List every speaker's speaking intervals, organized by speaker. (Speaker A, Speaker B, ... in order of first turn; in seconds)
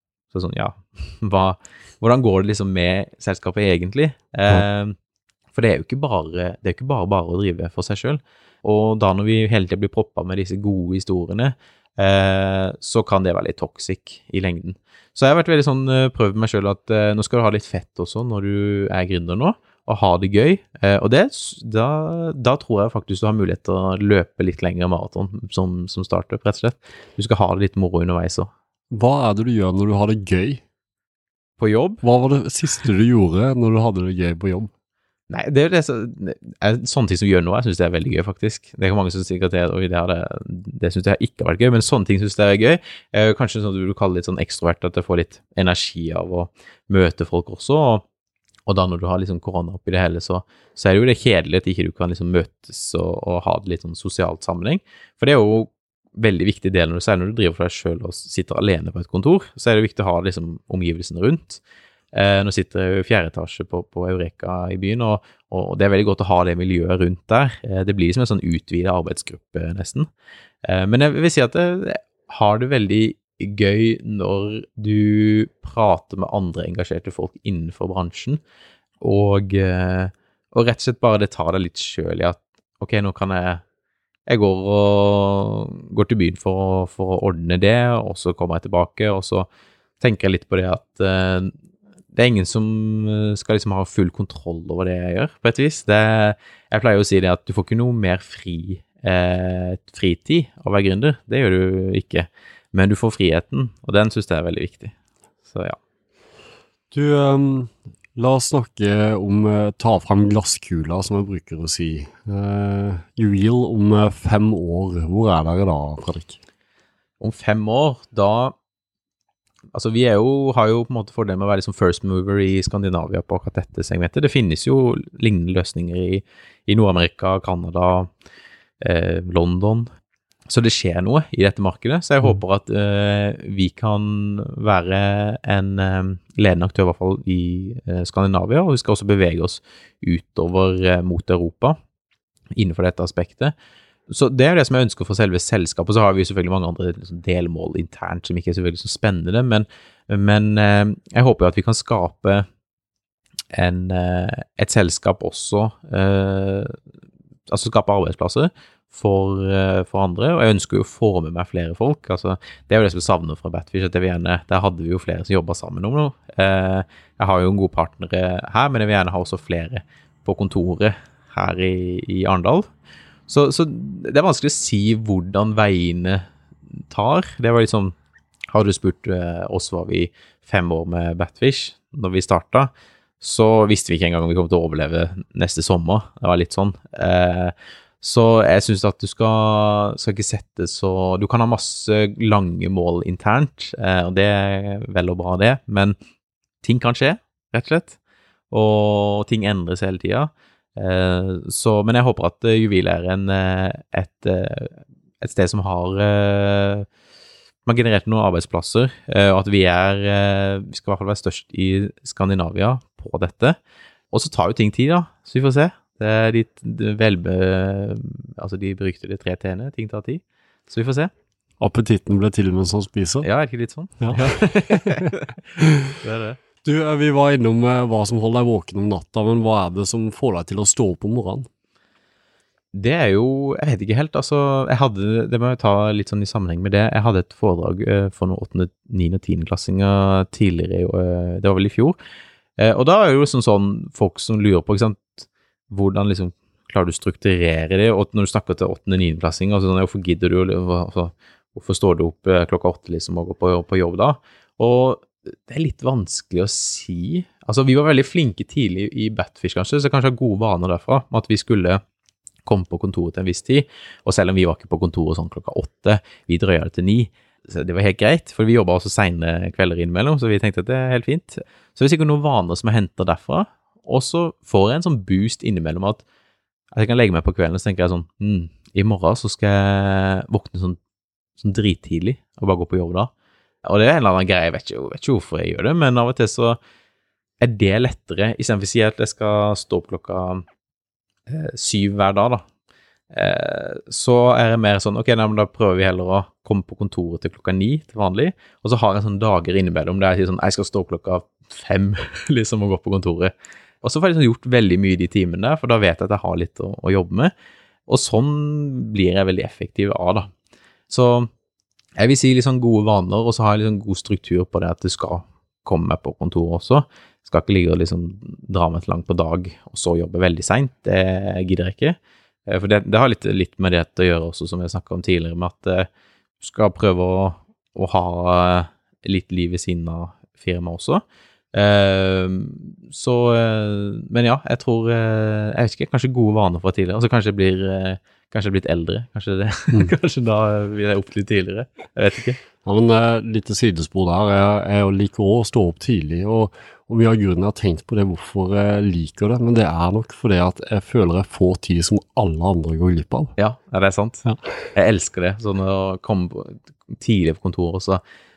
Speaker A: 0.3-5.0, 5.5-28.5, 31.6-32.0, 35.3-48.0, 48.7-61.6, 62.1-70.1, 70.7-78.4, 79.0-83.6, 84.3-89.5, 90.0-91.5, 92.1-104.9, 105.5-105.8, 117.2-118.6, 119.7-128.1, 128.8-129.9, 130.5-141.8, 142.6-143.5, 144.1-152.5, 153.5-156.8, 157.5-172.7, 173.3-176.3, 176.9-177.9, 178.5-195.9, 196.6-198.0, 198.5-206.9, 207.7-213.6, 214.1-221.1, 223.2-226.4, 232.7-242.0, 242.6-261.8, 262.5-276.0, 276.7-280.8, 281.4-283.1, 283.6-286.6, 287.4-290.4, 291.3-292.4, 293.1-307.3, 307.9-310.3, 310.9-311.3, 312.0-325.9, 326.4-331.0, 331.5-342.4, 353.4-358.0
Speaker B: 28.9-30.6, 32.0-34.7, 106.9-116.4, 221.6-223.3, 224.0-225.7, 226.6-231.5, 342.6-353.3